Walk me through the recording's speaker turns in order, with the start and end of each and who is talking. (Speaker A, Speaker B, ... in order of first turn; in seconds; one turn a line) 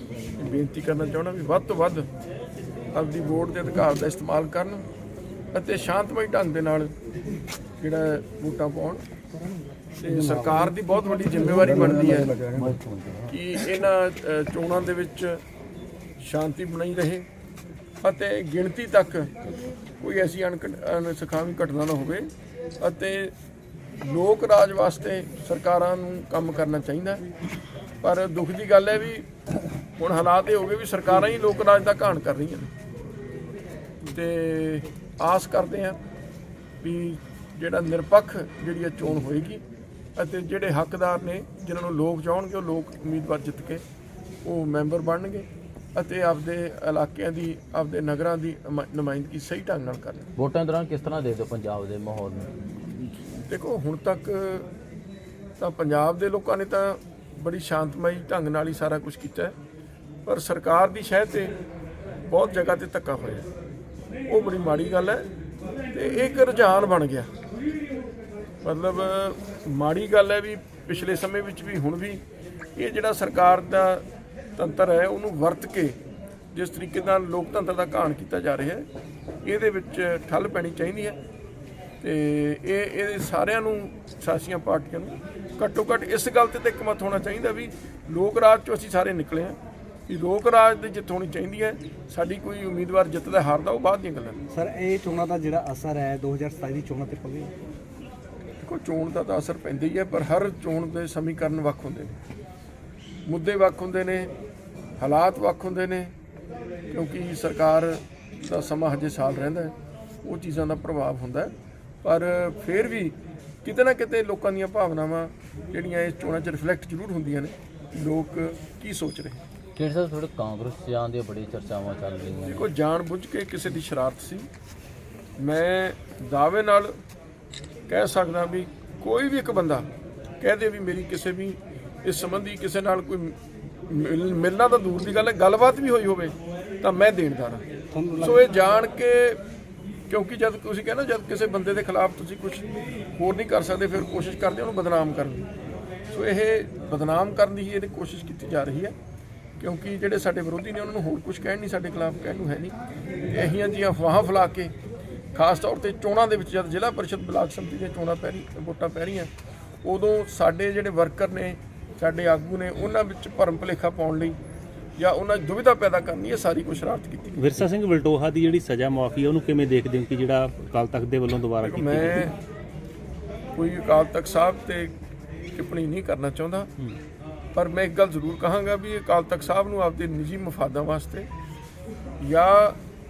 Speaker A: 0.4-2.1
Speaker A: 2.9-4.8
Speaker A: 5.5-6.9
Speaker A: 7.8-9.0
Speaker A: 10.0-12.4
Speaker B: 10.1-10.6
Speaker C: 12.2-13.3
Speaker A: 13.3-15.4
Speaker A: 16.2-17.2
Speaker A: 18.0-19.3
Speaker A: 20.0-22.3
Speaker A: 22.8-23.3
Speaker A: 24.0-27.2
Speaker A: 28.0-29.3
Speaker A: 30.0-32.7
Speaker A: 34.1-36.0
Speaker A: 36.8-39.6
Speaker A: 40.1-43.8
Speaker A: 44.4-50.3
Speaker C: 50.4-52.7
Speaker A: 53.5-54.7
Speaker A: 55.6-59.5
Speaker A: 60.2-61.5
Speaker A: 62.3-63.5
Speaker A: 64.3-65.2
Speaker A: 65.9-67.3
Speaker A: 68.6-72.2
Speaker A: 72.8-74.0
Speaker A: 74.6-76.0
Speaker A: 76.5-78.9
Speaker A: 79.4-81.2
Speaker A: 82.0-94.4
Speaker B: 94.5-97.5
Speaker A: 98.6-102.2
Speaker A: 103.2-104.3
Speaker A: 105.0-106.1
Speaker A: 106.9-111.5
Speaker A: 112.0-119.4
Speaker C: 119.7-122.7
Speaker A: 122.4-124.5
Speaker A: 125.4-127.0
Speaker A: 127.9-129.9
Speaker A: 130.4-133.3
Speaker A: 133.9-137.6
Speaker B: 137.9-138.4
Speaker A: 138.2-139.4
Speaker A: 140.1-145.5
Speaker A: 146.1-148.9
Speaker A: 149.6-152.7
Speaker A: 153.3-154.7
Speaker A: 155.3-159.3
Speaker A: 159.8-164.4
Speaker A: 165.0-167.5
Speaker D: 167.4-172.3
Speaker A: 171.6-172.4
Speaker A: 173.5-174.9
Speaker A: 175.5-176.7
Speaker A: 177.5-181.3
Speaker A: 182.2-182.8